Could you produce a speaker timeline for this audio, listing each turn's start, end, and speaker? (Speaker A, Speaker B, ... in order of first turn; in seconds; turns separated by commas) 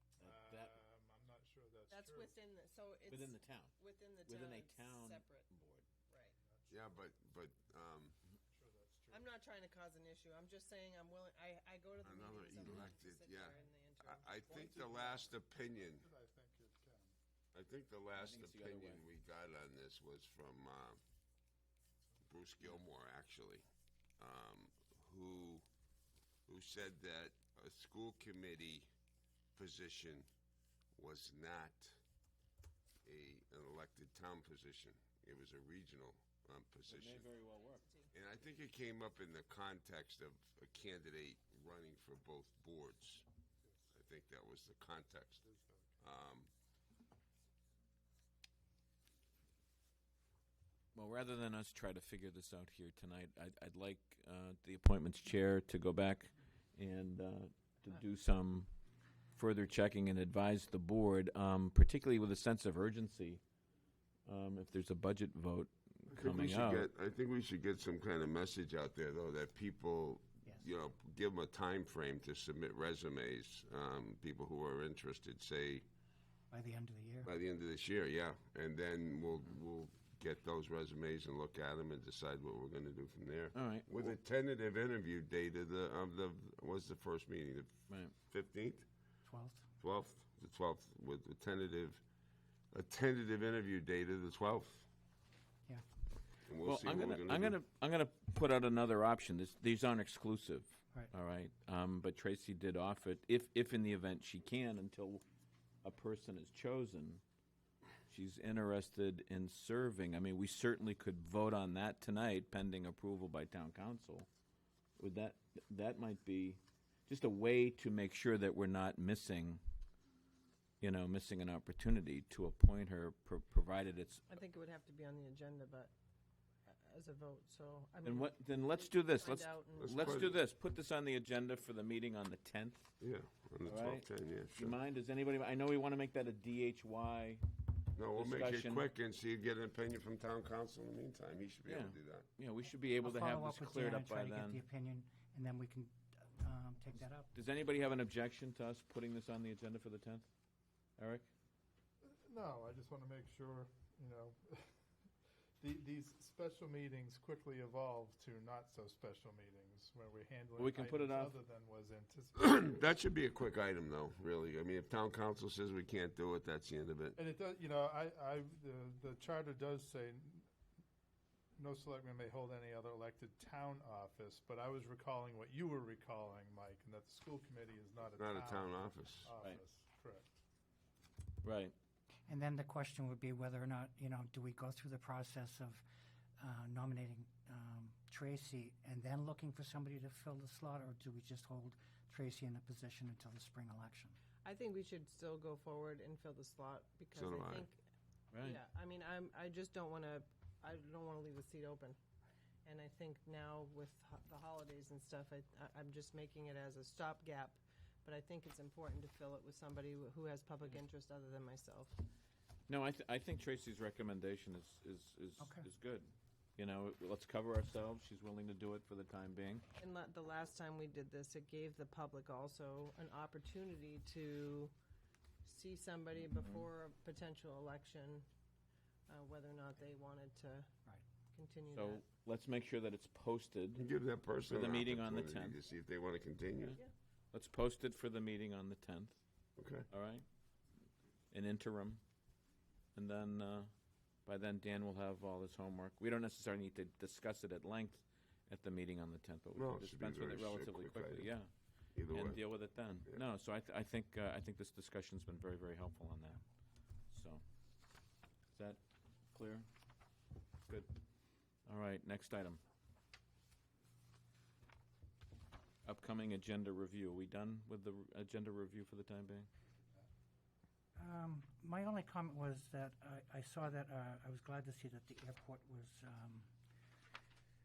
Speaker A: 0.2-0.8, Speaker B: 0.2-2.4, Speaker C: 1.9-5.5, Speaker A: 3.1-5.8, Speaker C: 6.1-6.3, Speaker B: 6.4-7.0, Speaker D: 6.7-8.2, Speaker B: 8.5-9.3, Speaker C: 9.1-14.4, Speaker D: 12.0-16.1, Speaker A: 12.6-12.9, Speaker B: 14.5-17.1, Speaker D: 17.5-21.0, Speaker A: 18.1-19.0, Speaker D: 22.3-23.6, Speaker D: 24.2-25.6, Speaker D: 26.5-28.9, Speaker D: 29.6-30.3, Speaker D: 30.9-32.0, Speaker D: 33.0-37.3, Speaker A: 36.9-37.8, Speaker C: 37.8-38.1, Speaker D: 38.1-43.2, Speaker D: 43.9-45.4, Speaker B: 45.4-45.9, Speaker D: 46.0-46.5, Speaker A: 50.9-58.7, Speaker A: 59.3-63.4, Speaker A: 64.2-66.9, Speaker D: 66.1-75.8, Speaker E: 76.5-77.3, Speaker D: 77.2-87.7, Speaker A: 83.5-84.1, Speaker D: 88.3-88.8, Speaker E: 89.2-89.7, Speaker D: 89.8-92.0, Speaker D: 92.7-94.9, Speaker D: 96.5-97.6, Speaker A: 96.6-105.2, Speaker A: 105.8-107.2, Speaker A: 108.1-114.3, Speaker A: 115.0-119.6, Speaker A: 120.8-124.3, Speaker C: 124.3-125.9, Speaker C: 126.7-130.0, Speaker A: 128.0-132.9, Speaker D: 129.8-130.4, Speaker D: 133.0-134.8, Speaker A: 133.7-137.4, Speaker D: 137.9-142.3, Speaker A: 138.1-138.8, Speaker A: 141.7-144.6, Speaker E: 143.0-147.3, Speaker A: 147.3-150.3, Speaker A: 151.0-151.3, Speaker B: 152.0-154.7, Speaker B: 155.6-162.4, Speaker A: 160.6-161.4, Speaker D: 162.3-167.2, Speaker B: 167.2-170.5, Speaker B: 171.6-180.4, Speaker D: 178.2-179.3, Speaker A: 181.4-181.7, Speaker E: 182.3-185.8, Speaker E: 186.4-194.2, Speaker C: 194.4-197.8, Speaker D: 197.1-197.7, Speaker A: 198.3-198.6, Speaker C: 198.4-202.0, Speaker C: 202.6-212.0, Speaker A: 212.7-219.6, Speaker E: 215.4-215.7, Speaker C: 219.8-224.7, Speaker C: 225.4-228.2, Speaker A: 226.1-226.7, Speaker C: 229.1-230.7, Speaker C: 231.3-232.1, Speaker A: 231.7-233.8, Speaker D: 233.8-236.8, Speaker A: 234.5-235.6, Speaker A: 237.3-239.2, Speaker D: 239.6-239.9, Speaker A: 239.9-240.2, Speaker A: 241.3-242.0, Speaker A: 242.9-243.7, Speaker A: 244.2-251.5, Speaker D: 249.5-251.3, Speaker D: 251.9-252.4, Speaker A: 252.1-256.4, Speaker A: 257.1-257.4, Speaker A: 258.5-258.8, Speaker A: 259.3-259.7, Speaker A: 261.6-262.6, Speaker A: 265.8-269.5, Speaker E: 270.9-276.5